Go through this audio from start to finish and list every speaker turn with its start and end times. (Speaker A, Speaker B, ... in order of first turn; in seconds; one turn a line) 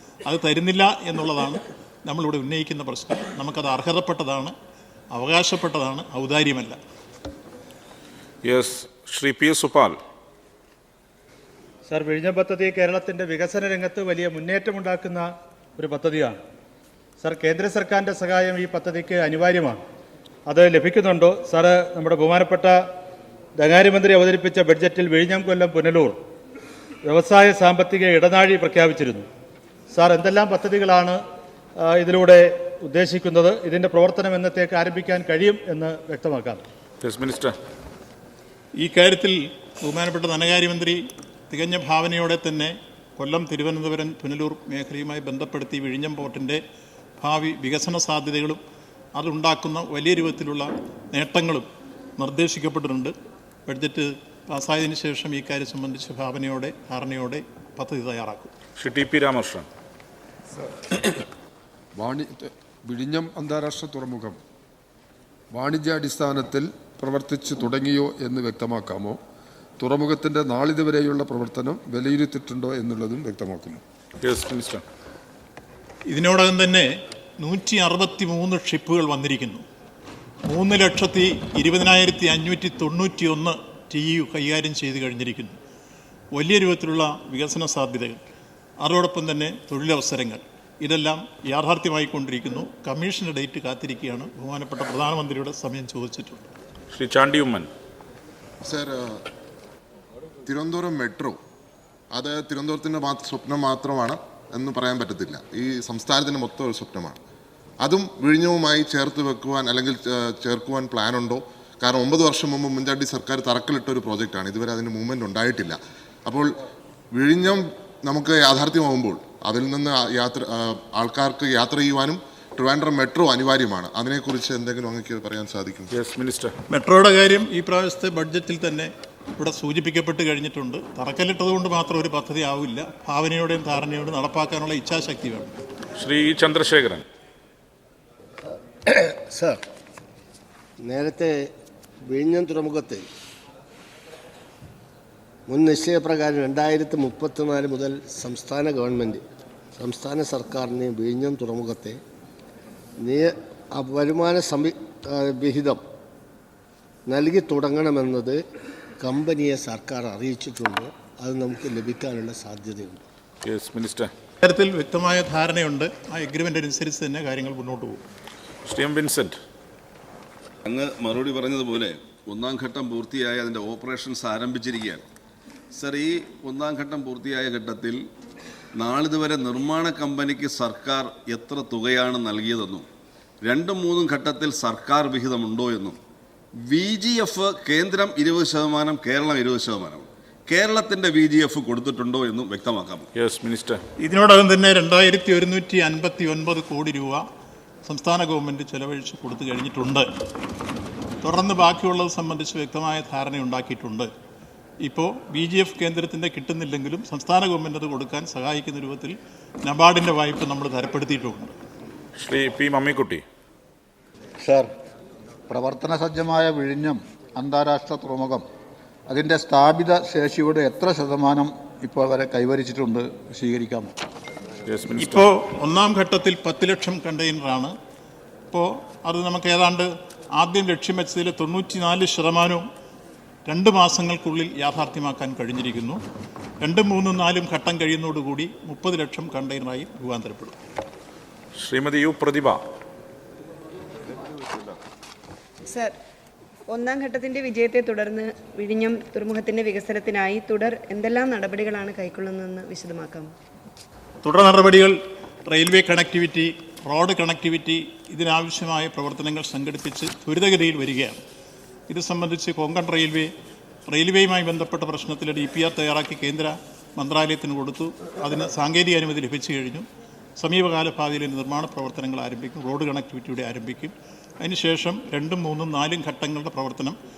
Speaker A: 0.2-4.5
Speaker A: 5.1-6.8
Speaker B: 8.4-10.0
Speaker C: 11.9-15.2
Speaker C: 15.8-16.4
Speaker C: 17.2-19.8
Speaker C: 20.5-22.7
Speaker C: 23.6-26.1
Speaker C: 27.1-29.2
Speaker C: 29.9-31.2
Speaker C: 31.9-36.6
Speaker B: 37.0-37.5
Speaker A: 38.8-46.6
Speaker A: 47.2-48.6
Speaker A: 49.1-51.6
Speaker A: 52.2-53.1
Speaker A: 53.7-58.5
Speaker B: 58.8-59.7
Speaker D: 61.9-64.4
Speaker D: 65.5-69.2
Speaker D: 69.8-73.8
Speaker B: 74.2-74.8
Speaker A: 76.1-79.6
Speaker A: 80.4-85.6
Speaker A: 86.3-88.2
Speaker A: 88.8-96.5
Speaker B: 96.9-97.7
Speaker E: 98.6-99.2
Speaker E: 100.5-101.4
Speaker E: 102.1-107.2
Speaker E: 107.8-116.5
Speaker E: 117.1-125.9
Speaker B: 125.9-126.5
Speaker A: 126.7-135.5
Speaker B: 136.0-137.0
Speaker F: 138.9-139.6
Speaker F: 140.8-141.5
Speaker F: 142.1-143.0
Speaker F: 145.5-149.2
Speaker F: 149.8-152.0
Speaker F: 153.0-155.8
Speaker F: 157.1-158.4
Speaker F: 159.0-163.0
Speaker B: 163.4-164.1
Speaker A: 164.4-168.0
Speaker B: 168.7-169.4
Speaker G: 170.7-175.0
Speaker G: 175.7-178.0
Speaker G: 178.8-182.8
Speaker G: 183.4-186.0
Speaker G: 186.6-193.1
Speaker B: 193.2-193.8
Speaker A: 194.0-197.2
Speaker A: 197.8-200.1
Speaker A: 201.2-204.1
Speaker A: 204.8-211.5
Speaker B: 212.2-213.2
Speaker H: 214.4-214.7
Speaker H: 215.5-218.4
Speaker H: 219.1-223.9
Speaker B: 224.7-225.2
Speaker A: 225.0-227.7
Speaker A: 228.5-232.7
Speaker A: 233.4-236.0
Speaker A: 236.6-240.5
Speaker B: 241.6-242.6
Speaker I: 245.7-246.0
Speaker I: 246.7-253.3
Speaker A: 254.2-261.2
Speaker A: 261.9-263.3
Speaker A: 263.9-277.0